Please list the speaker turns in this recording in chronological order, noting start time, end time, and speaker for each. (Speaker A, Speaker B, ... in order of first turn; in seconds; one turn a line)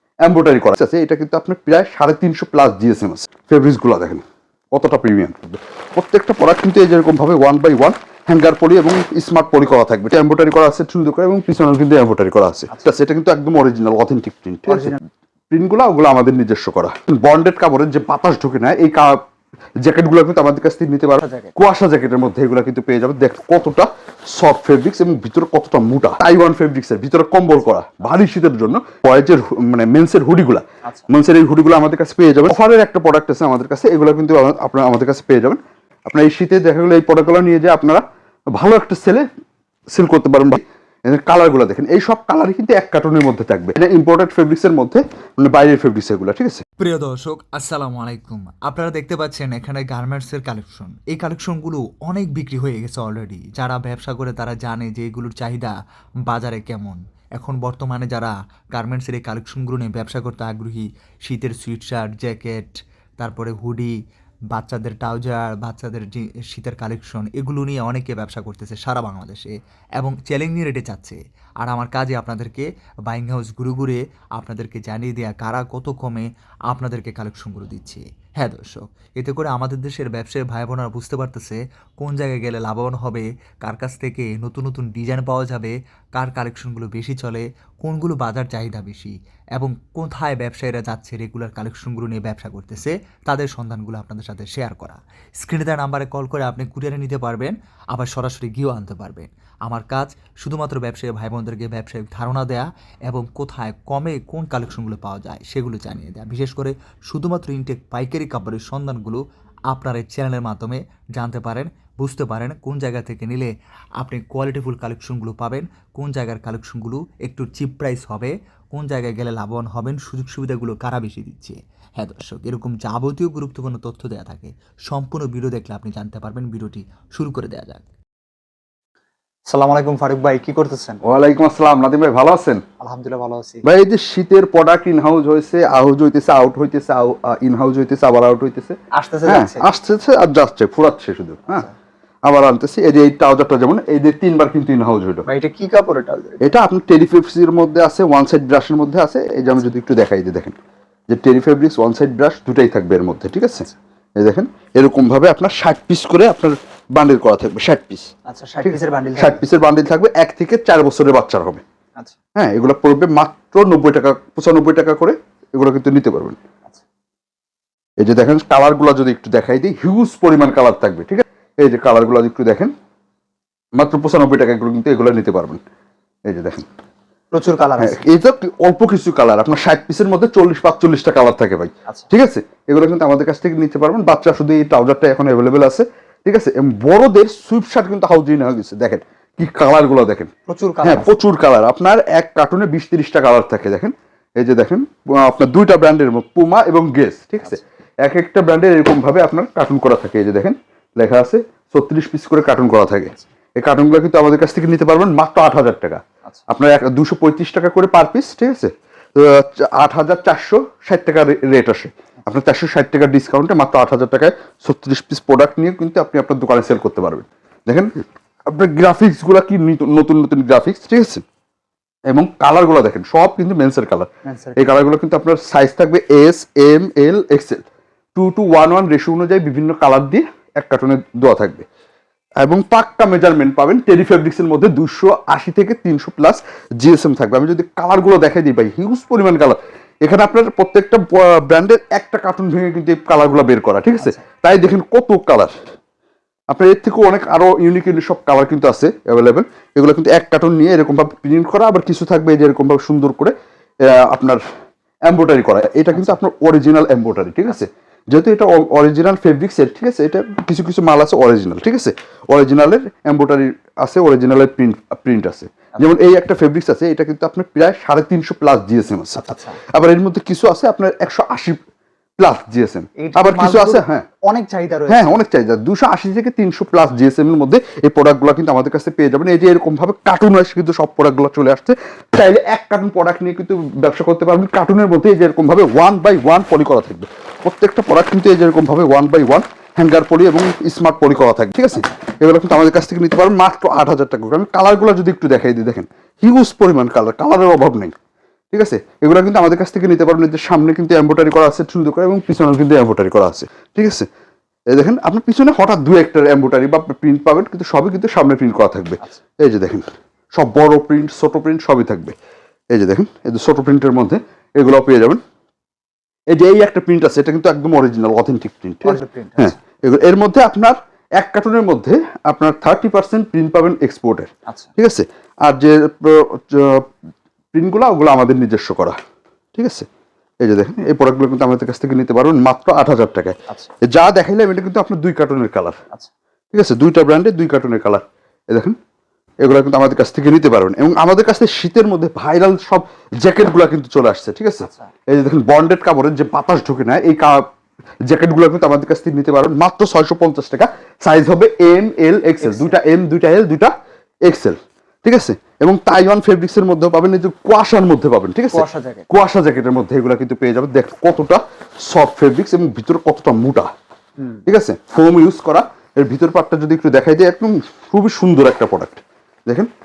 Speaker A: 0.2-19.2
Speaker B: 14.7-15.0
Speaker A: 19.8-38.0
Speaker B: 21.2-21.5
Speaker A: 38.5-39.2
Speaker A: 39.9-46.6
Speaker C: 46.8-55.7
Speaker C: 56.3-63.9
Speaker C: 64.5-127.8
Speaker B: 129.5-131.0
Speaker A: 131.0-132.6
Speaker B: 132.8-133.6
Speaker A: 133.6-141.7
Speaker B: 138.9-139.7
Speaker A: 142.2-145.2
Speaker B: 145.2-146.5
Speaker A: 146.4-150.6
Speaker A: 151.1-158.1
Speaker B: 158.3-159.4
Speaker A: 158.6-161.6
Speaker A: 162.3-166.4
Speaker A: 168.0-172.7
Speaker A: 173.8-175.6
Speaker A: 176.3-176.7
Speaker B: 177.3-178.0
Speaker A: 177.8-190.3
Speaker B: 190.5-191.1
Speaker A: 190.8-221.2
Speaker A: 222.1-227.6
Speaker B: 224.2-224.7
Speaker A: 228.1-231.7
Speaker A: 232.4-245.5
Speaker A: 246.5-254.4
Speaker A: 255.1-271.6
Speaker B: 269.1-269.6
Speaker A: 272.2-274.1
Speaker B: 273.0-275.2
Speaker A: 274.9-297.9
Speaker A: 298.5-304.1
Speaker A: 304.7-312.1
Speaker A: 312.7-315.2
Speaker A: 316.3-326.9
Speaker B: 318.8-319.5
Speaker A: 327.5-329.0
Speaker A: 329.5-329.9
Speaker A: 330.4-335.8
Speaker A: 336.5-338.8
Speaker A: 339.4-347.4
Speaker A: 348.1-353.7
Speaker B: 352.4-352.7
Speaker A: 354.2-363.7
Speaker B: 358.5-359.1
Speaker A: 364.4-369.7